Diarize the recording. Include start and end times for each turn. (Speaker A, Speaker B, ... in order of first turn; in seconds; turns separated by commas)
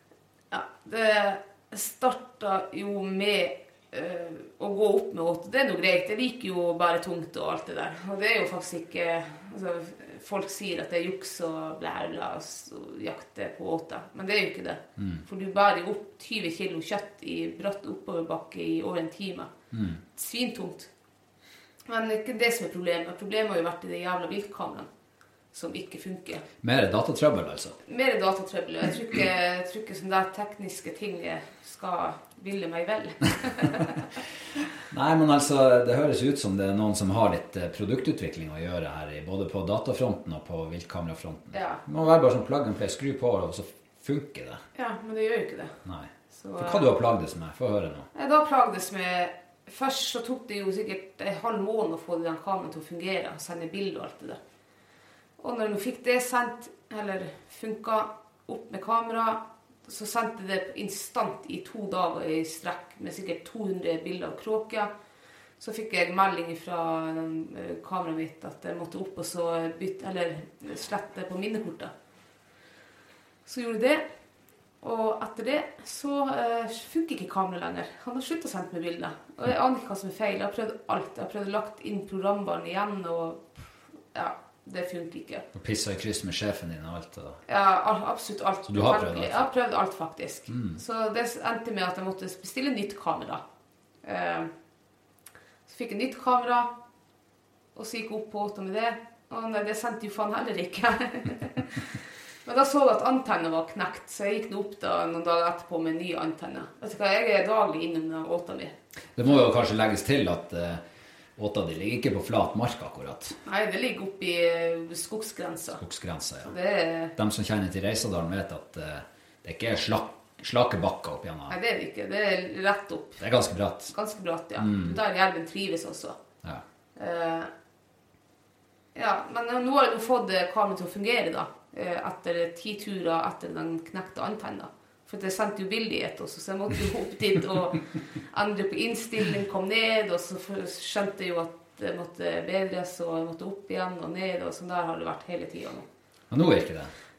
Speaker A: 0.5-19.5, Speaker B: 15.0-15.2, Speaker B: 19.7-20.0, Speaker A: 20.1-20.9, Speaker A: 21.9-24.9, Speaker A: 25.5-26.4, Speaker B: 26.6-27.8, Speaker A: 27.9-34.0, Speaker B: 34.9-44.6, Speaker A: 41.5-41.8, Speaker A: 44.8-45.8, Speaker B: 45.9-48.1, Speaker A: 46.3-46.9, Speaker A: 48.1-54.4, Speaker A: 55.4-64.9, Speaker A: 65.6-71.9, Speaker A: 73.5-74.0, Speaker A: 74.8-85.5, Speaker B: 85.5-87.4, Speaker A: 87.5-93.4, Speaker B: 88.7-89.5, Speaker B: 90.5-90.8, Speaker A: 94.0-94.5, Speaker A: 95.7-96.7, Speaker A: 97.8-101.8, Speaker A: 102.5-108.7, Speaker B: 109.2-110.8, Speaker B: 111.4-113.4, Speaker A: 113.5-115.8, Speaker B: 115.8-116.5, Speaker A: 116.4-117.1, Speaker B: 117.2-121.6, Speaker A: 121.5-123.2, Speaker B: 123.2-123.9, Speaker A: 123.9-126.2, Speaker B: 124.6-125.0, Speaker A: 127.0-127.5, Speaker A: 128.9-145.9, Speaker B: 146.3-146.9